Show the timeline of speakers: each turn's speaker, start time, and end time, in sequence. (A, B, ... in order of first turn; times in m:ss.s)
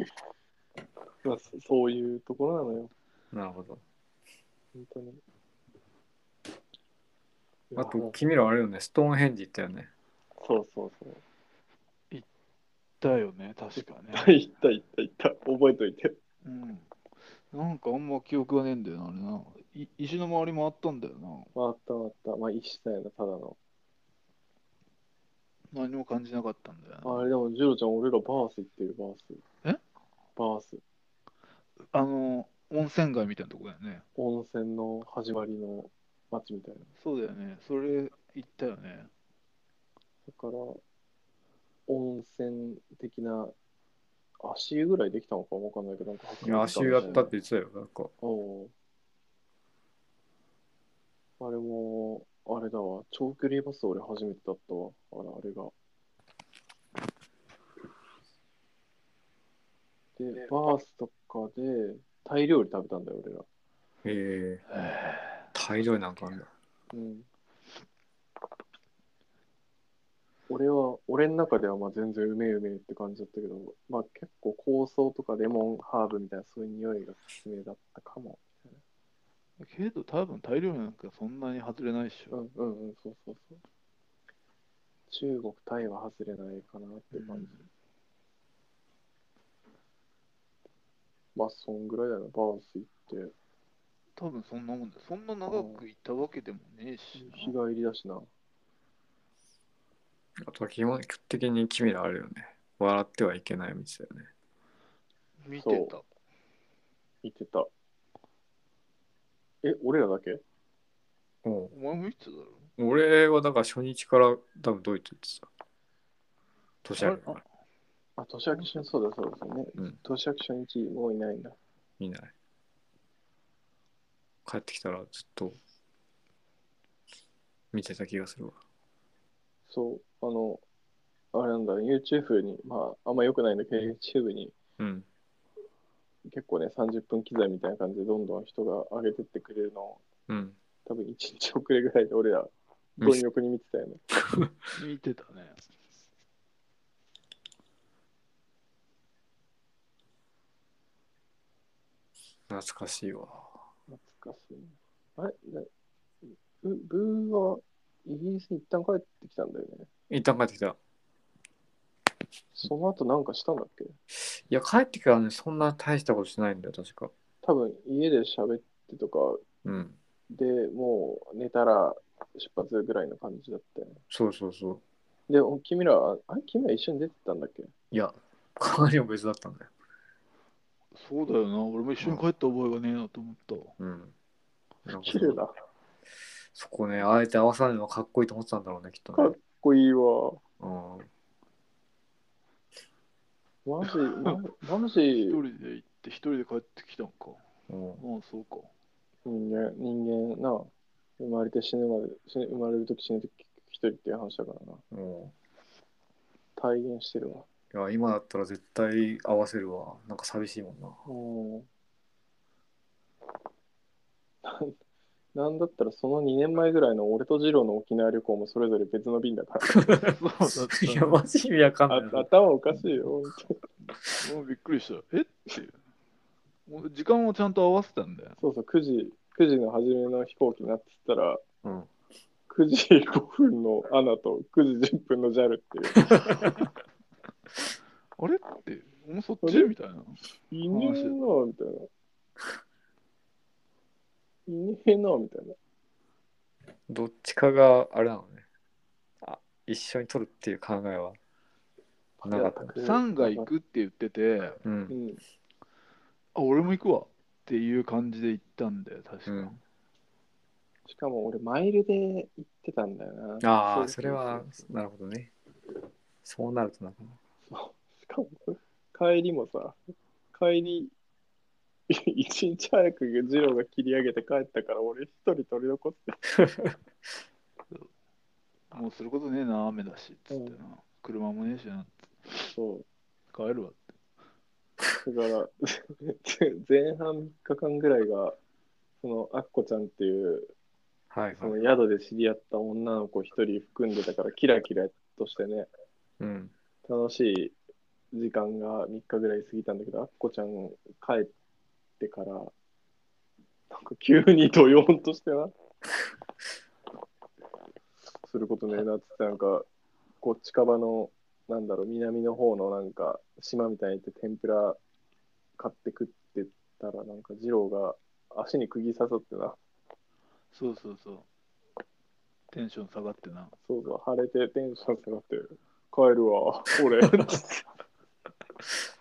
0:01.2-0:02.9 A
0:03.3-0:03.8 B
0:04.7-0:05.2 A
0:07.7-0:08.2 A
0:07.7-0:09.9 B
0:10.4-0:11.2 A
0:13.0-0:14.3 C
0:14.1-0:16.2 A
0:16.4-0:16.9 C
0:17.5-0:21.5 C
0:21.5-0:23.6 A
0:25.7-0:27.3 C
0:27.0-0:29.4 A
0:30.4-0:30.8 A
0:31.9-0:34.0 C
0:34.2-0:36.9 A
0:37.0-0:39.1 C
0:40.3-0:40.8 A
0:41.9-0:43.5 A
0:44.4-0:47.3 A
0:46.4-0:48.1 B
0:46.8-0:47.3 C
0:48.2-0:48.7 A
0:51.4-0:55.7 A
1:00.2-1:03.4 A
1:04.0-1:04.7 B
1:04.7-1:05.4 C
1:05.5-1:06.5 B
1:06.9-1:07.3 A
1:10.5-1:18.8 A
1:19.6-1:22.3 C
1:22.3-1:23.6 A
1:25.1-1:27.6 A
1:27.1-1:27.5 C
1:31.3-1:33.3 A
1:34.2-1:37.5 C
1:35.5-1:35.8 A
1:37.2-1:38.3 A
1:40.4-1:44.3 B
1:45.4-1:46.0 C
1:45.6-1:45.9 A
1:47.2-1:47.7 A
1:49.6-1:50.4 A
1:51.4-1:51.7 B
1:51.7-1:52.7 C
1:52.8-1:55.5 B
1:56.8-1:57.4 B
1:57.0-1:57.4 C
1:58.2-2:01.6 A
2:02.0-2:02.3 B
2:04.4-2:05.6 B
2:07.7-2:08.6 B
2:09.7-2:10.6 A
2:11.3-2:14.5 A
2:14.8-2:15.0 B
2:16.2-2:20.0 A
2:20.3-2:20.6 B
2:20.8-2:24.0 A
2:24.8-2:25.6 C
2:32.5-2:33.5 B
2:33.9-2:35.7 A
2:36.3-2:39.9 A
2:40.1-2:40.8 B
2:42.5-2:43.9 A
2:44.1-2:47.1 B
2:47.4-2:49.4 A
2:49.6-2:50.0 B
2:50.3-2:54.0 A
2:54.1-2:54.8 B
2:55.3-2:57.7 A
2:57.9-2:59.7 B
3:00.9-3:03.7 C
3:03.8-3:04.1 B
3:04.8-3:05.4 B
3:05.0-3:05.5 A
3:06.5-3:09.4 B
3:09.1-3:10.4 A
3:10.6-3:11.1 B
3:13.6-3:15.4 A
3:15.3-3:17.4 C
3:17.7-3:18.0 B
3:18.0-3:18.7 C
3:19.2-3:24.8 A
3:24.9-3:25.3 B
3:26.6-3:27.4 A
3:27.7-3:31.0 B
3:31.0-3:31.7 A
3:34.4-3:34.8 A
3:35.3-3:39.8 A
3:39.7-3:40.2 B
3:40.0-3:41.2 C
3:40.7-3:42.3 B
3:41.9-3:43.6 A
3:44.2-3:45.8 C
3:46.7-3:48.4 C
3:48.4-3:51.4 A
3:51.6-3:51.9 B
3:52.5-3:56.3 A
3:56.0-3:56.5 B
3:58.2-4:01.2 C
3:59.4-3:59.7 A
4:00.5-4:01.9 A
4:04.5-4:05.6 A
4:06.9-4:08.4 B
4:09.2-4:11.2 B
4:12.2-4:13.5 A
4:12.2-4:12.7 B
4:12.8-4:14.6 C
4:14.6-4:15.0 B
4:14.9-4:15.2 A
4:16.3-4:19.6 C
4:19.3-4:19.5 B
4:20.8-4:24.6 A
4:23.4-4:25.3 B
4:26.2-4:27.2 B
4:27.5-4:29.8 A
4:30.3-4:30.9 A
4:31.9-4:36.2 A
4:36.4-4:36.7 B
4:38.7-4:42.5 C
4:40.3-4:40.6 A
4:42.5-4:42.8 A
4:43.3-4:43.9 C
4:45.0-4:48.4 A
4:49.0-4:50.5 A
4:51.1-4:51.7 B
4:51.3-4:55.7 A
4:56.2-4:56.5 B
4:56.8-4:57.5 A
4:58.1-5:01.3 A
5:02.0-5:02.5 A
5:03.7-5:05.5 A
5:08.2-5:09.6 A
5:10.2-5:14.8 A
5:15.6-5:19.6 A
5:20.5-5:21.2 C
5:22.5-5:23.5 C
5:23.7-5:27.7 A